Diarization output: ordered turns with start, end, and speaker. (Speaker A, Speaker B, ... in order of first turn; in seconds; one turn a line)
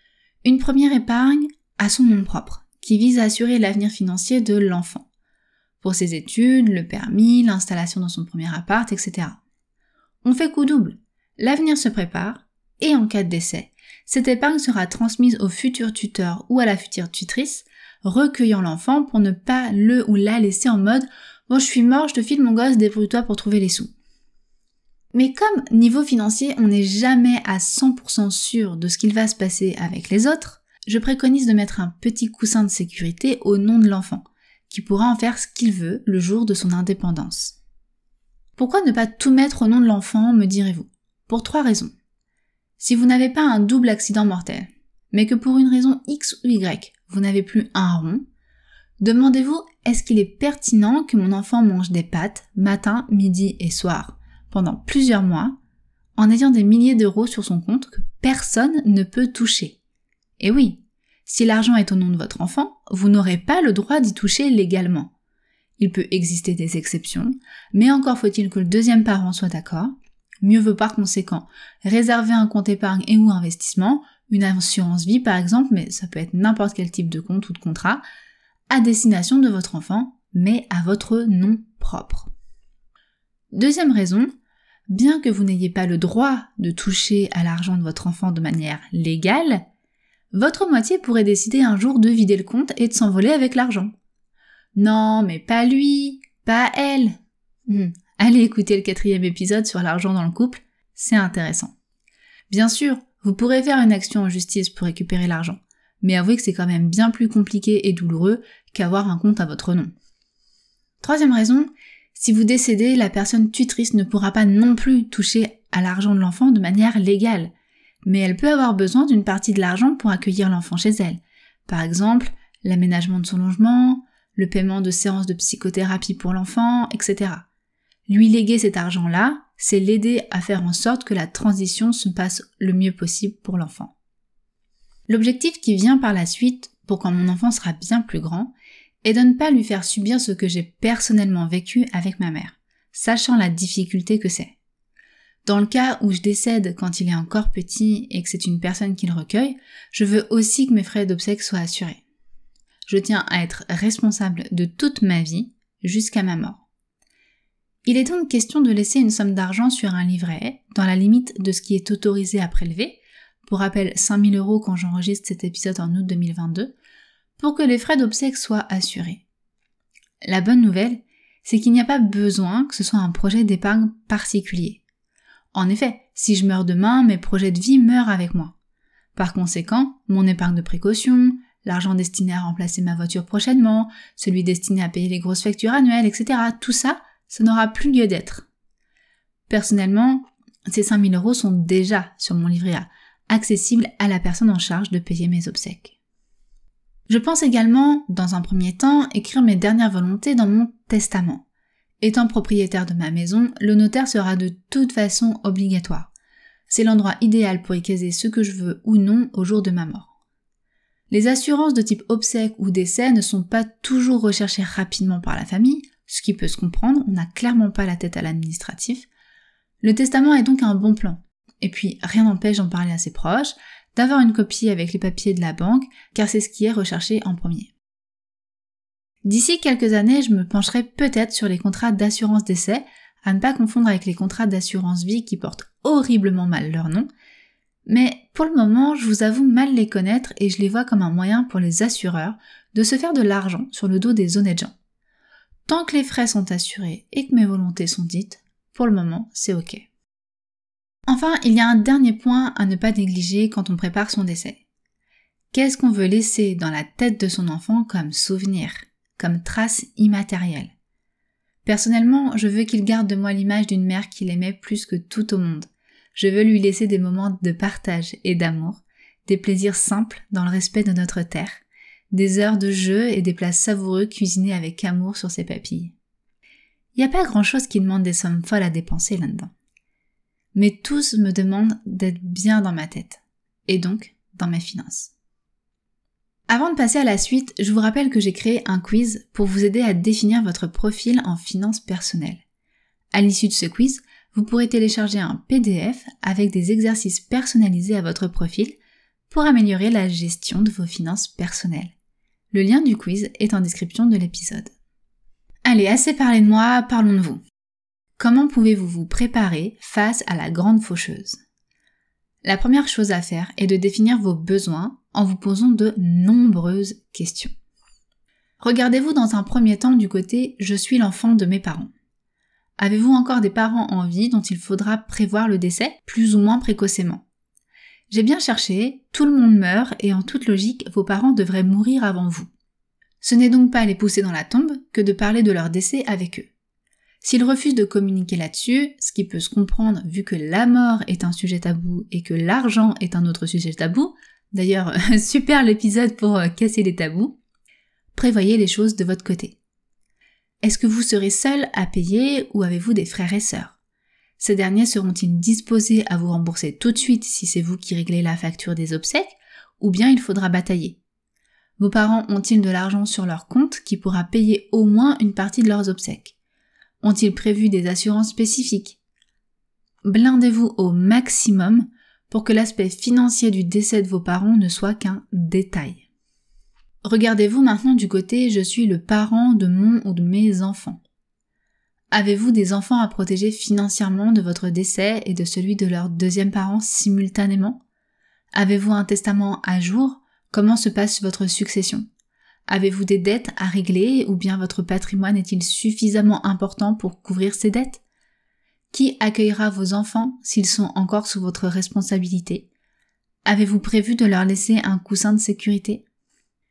Speaker A: 0.4-5.1
Speaker A: 5.8-9.4
Speaker A: 10.2-23.9
Speaker A: 25.1-37.6
Speaker A: 38.6-41.9
Speaker A: 42.8-48.2
Speaker A: 49.0-55.6
Speaker A: 56.2-59.8
Speaker A: 60.4-65.1
Speaker A: 65.8-78.0
Speaker A: 78.7-82.3
Speaker A: 83.5-84.3
Speaker A: 84.9-89.6
Speaker A: 90.3-93.9
Speaker A: 94.7-101.7
Speaker A: 102.5-109.9
Speaker A: 111.0-117.5
Speaker A: 118.0-127.5
Speaker A: 128.1-133.9
Speaker A: 135.1-138.5
Speaker A: 139.0-144.6
Speaker A: 145.4-152.0
Speaker A: 152.9-156.7
Speaker A: 157.8-166.7
Speaker A: 167.4-169.2
Speaker A: 170.2-174.8
Speaker A: 175.5-178.5
Speaker A: 179.1-188.5
Speaker A: 189.5-195.9
Speaker A: 197.1-201.4
Speaker A: 202.0-206.1
Speaker A: 206.7-210.1
Speaker A: 211.1-219.1
Speaker A: 219.8-227.7
Speaker A: 229.2-237.1
Speaker A: 237.8-244.7
Speaker A: 245.7-249.8
Speaker A: 251.1-254.6
Speaker A: 255.5-260.7
Speaker A: 261.6-275.9
Speaker A: 276.9-279.5
Speaker A: 280.5-285.1
Speaker A: 286.5-292.4
Speaker A: 293.1-298.8
Speaker A: 299.3-301.9
Speaker A: 302.5-304.7
Speaker A: 305.6-307.4
Speaker A: 308.2-311.4
Speaker A: 312.4-317.5
Speaker A: 318.6-321.9
Speaker A: 322.8-327.2
Speaker A: 328.1-332.5
Speaker A: 333.2-336.5
Speaker A: 337.2-347.4
Speaker A: 348.1-349.6
Speaker A: 350.6-353.8
Speaker A: 354.4-361.0
Speaker A: 361.8-366.4
Speaker A: 367.0-369.0
Speaker A: 370.0-376.0
Speaker A: 377.0-381.0
Speaker A: 382.1-387.8
Speaker A: 388.5-392.0
Speaker A: 392.7-398.0
Speaker A: 398.9-402.7
Speaker A: 403.4-406.0